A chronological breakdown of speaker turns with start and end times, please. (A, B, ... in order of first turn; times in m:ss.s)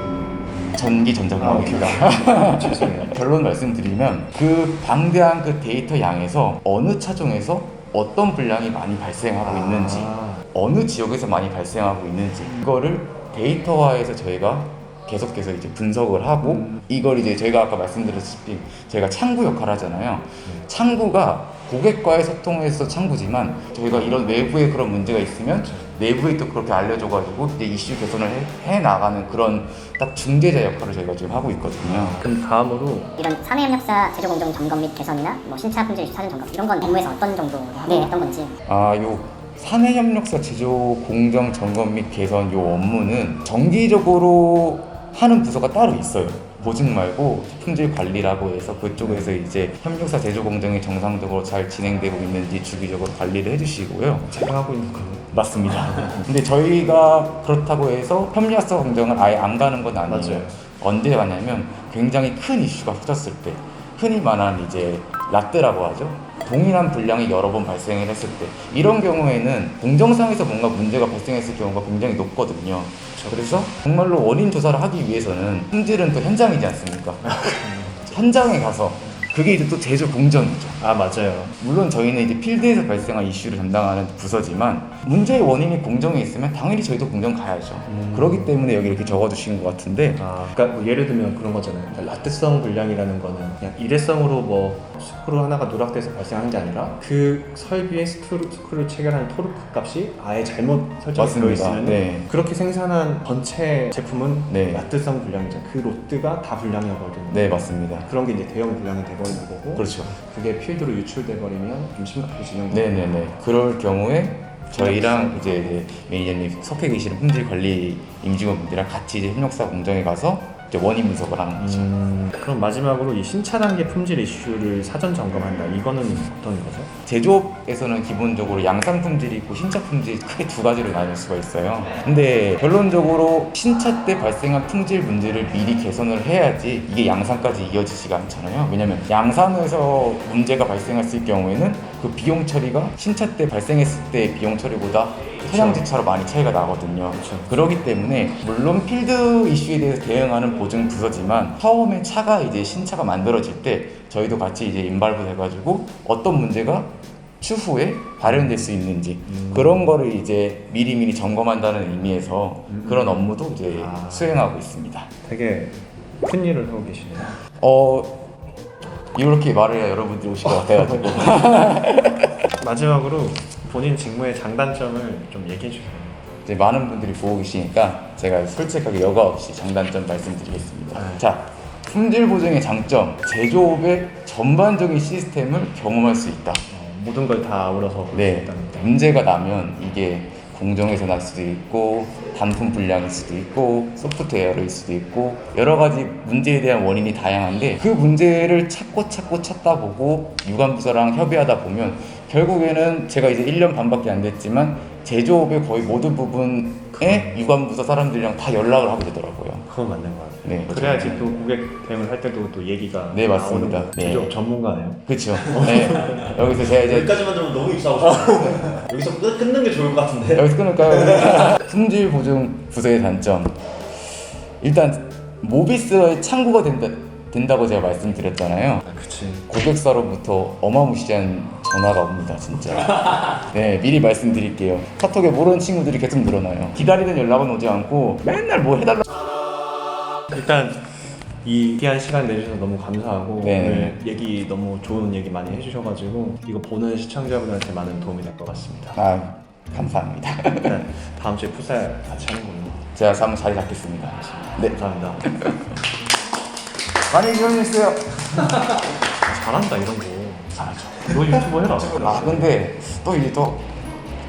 0:00.7-0:32.2 A
0:01.4-0:03.1 B
0:09.4-0:10.5 B
0:25.6-0:25.9 B
0:31.8-0:33.2 B
0:33.2-0:38.6 C
0:38.7-0:54.4 A
0:49.0-0:49.4 B
0:54.3-0:55.3 B
0:55.3-1:17.4 A
1:00.1-1:00.6 B
1:13.2-1:13.7 B
1:17.3-1:18.1 B
1:18.1-1:20.8 A
1:20.8-1:21.6 B
1:21.6-1:30.2 A
1:27.9-1:28.6 B
1:30.2-1:53.1 B
1:41.2-1:42.3 A
1:44.5-1:44.8 A
1:47.3-1:48.1 A
1:49.8-1:50.1 A
1:52.7-2:01.9 A
1:54.8-1:55.8 B
2:01.6-2:06.9 B
2:07.1-2:45.1 A
2:25.4-2:25.8 B
2:27.1-2:27.7 B
2:38.3-2:38.6 B
2:39.3-2:39.9 B
2:42.7-2:44.5 B
2:45.2-2:47.4 B
2:47.6-2:48.3 A
2:49.1-2:52.4 A
2:50.6-2:51.4 B
2:52.6-2:56.2 B
2:56.4-3:06.6 A
3:00.9-3:01.2 B
3:06.7-3:08.9 B
3:08.1-3:29.7 A
3:27.0-3:27.4 B
3:29.7-3:35.0 B
3:30.4-3:31.3 A
3:33.1-3:34.3 A
3:35.1-3:37.3 A
3:35.6-3:36.4 B
3:36.8-3:40.4 D
3:38.6-3:39.2 B
3:40.3-3:43.7 A
3:44.6-3:48.9 A
3:48.8-3:49.5 B
3:49.5-3:59.0 A
4:00.3-4:09.0 B
4:03.4-4:04.0 A
4:09.0-4:10.8 A
4:10.6-4:12.9 B
4:13.0-4:15.8 A
4:14.1-4:15.3 B
4:17.1-4:18.7 A
4:19.1-4:22.5 B
4:20.6-4:21.2 A
4:21.8-4:23.7 A